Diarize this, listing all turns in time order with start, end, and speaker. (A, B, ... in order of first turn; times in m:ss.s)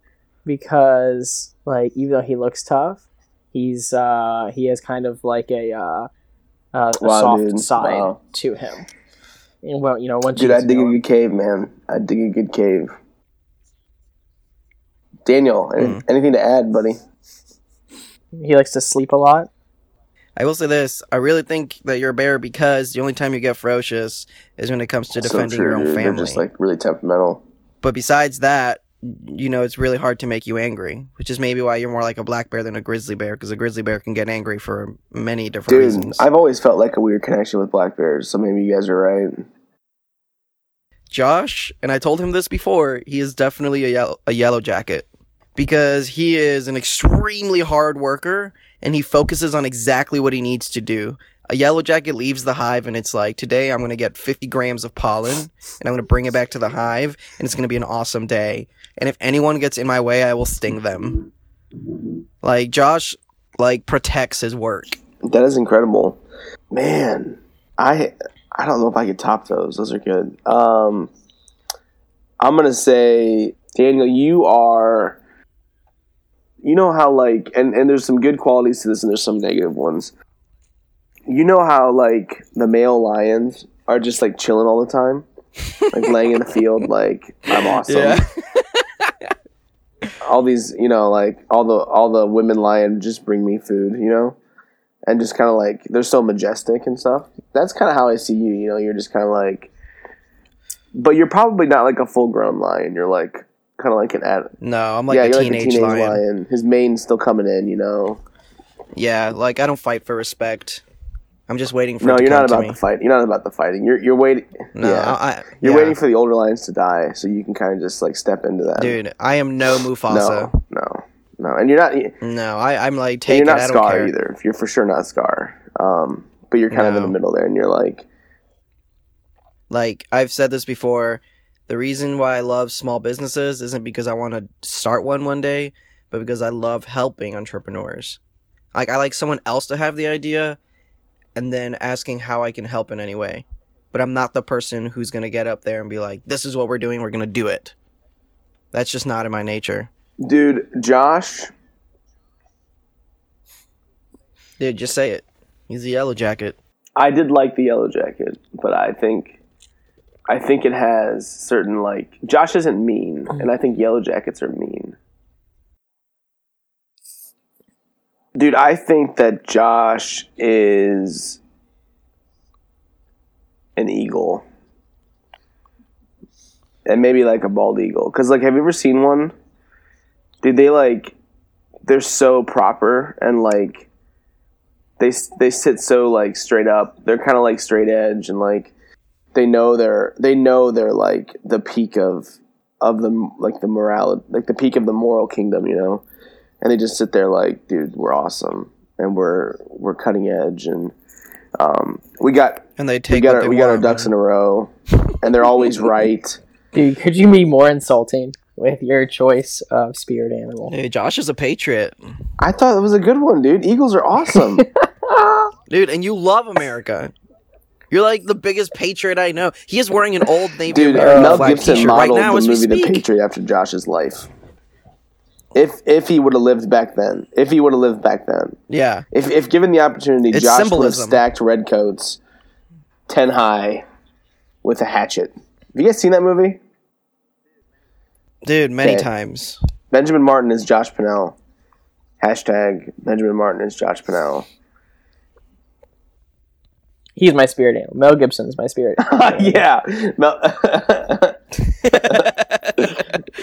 0:00.4-0:06.1 A
0:06.7-0:08.8 A
0:07.0-0:08.2 B
0:09.6-0:11.0 A
0:10.3-0:12.9 B
0:15.2-0:17.0 B
0:15.8-0:16.0 C
0:18.4-0:19.5 A
0:20.4-0:26.4 C
0:25.2-0:27.4 B
0:27.8-0:36.3 C
0:35.7-0:39.4 B
0:41.1-1:01.3 C
1:02.4-1:05.0 C
1:05.2-1:06.2 B
1:06.7-1:11.1 B
1:12.4-1:15.2 B
1:16.6-1:20.1 B
1:21.3-1:25.2 B
1:25.9-1:28.2 B
1:27.6-1:29.3 C
1:30.2-1:34.4 B
1:35.0-1:39.7 B
1:40.9-1:44.5 B
1:44.6-1:46.2 C
1:45.1-1:48.2 B
1:48.9-1:50.8 C
1:51.5-1:52.8 C
1:52.0-1:59.0 B
1:54.8-1:56.0 C
1:58.8-2:00.6 C
2:00.1-2:02.2 B
2:02.2-2:04.1 C
2:03.3-2:08.0 B
2:06.7-2:07.2 C
2:09.7-2:18.2 C
2:18.7-2:20.6 C
2:21.4-2:27.7 C
2:28.7-2:29.9 C
2:30.2-2:31.5 B
2:34.6-2:36.6 C
2:37.0-2:39.4 B
2:40.3-2:45.0 B
2:48.3-2:51.4 B
2:53.8-2:54.4 B
2:56.8-2:59.3 B
3:00.4-3:01.2 B
3:01.8-3:03.9 B
3:05.0-3:08.7 B
3:09.3-3:16.0 B
3:16.6-3:20.9 B
3:21.6-3:26.4 B
3:22.8-3:24.1 C
3:26.7-3:30.7 A
3:30.7-3:32.0 C
3:32.4-3:34.6 B
3:34.3-3:35.5 A
3:35.7-3:37.1 C
3:37.9-3:43.0 C
3:40.7-3:44.3 B
3:40.9-3:41.9 A
3:45.5-3:48.6 B
3:48.7-3:49.1 C
3:49.1-3:52.2 B
3:50.3-3:51.2 C
3:53.1-3:53.8 B
3:54.6-3:56.6 B
3:58.4-3:59.6 C
3:58.8-3:59.1 B
3:59.9-4:01.4 B
4:02.2-4:04.5 B
4:07.2-4:09.6 A
4:09.0-4:11.4 B
4:11.7-4:13.2 C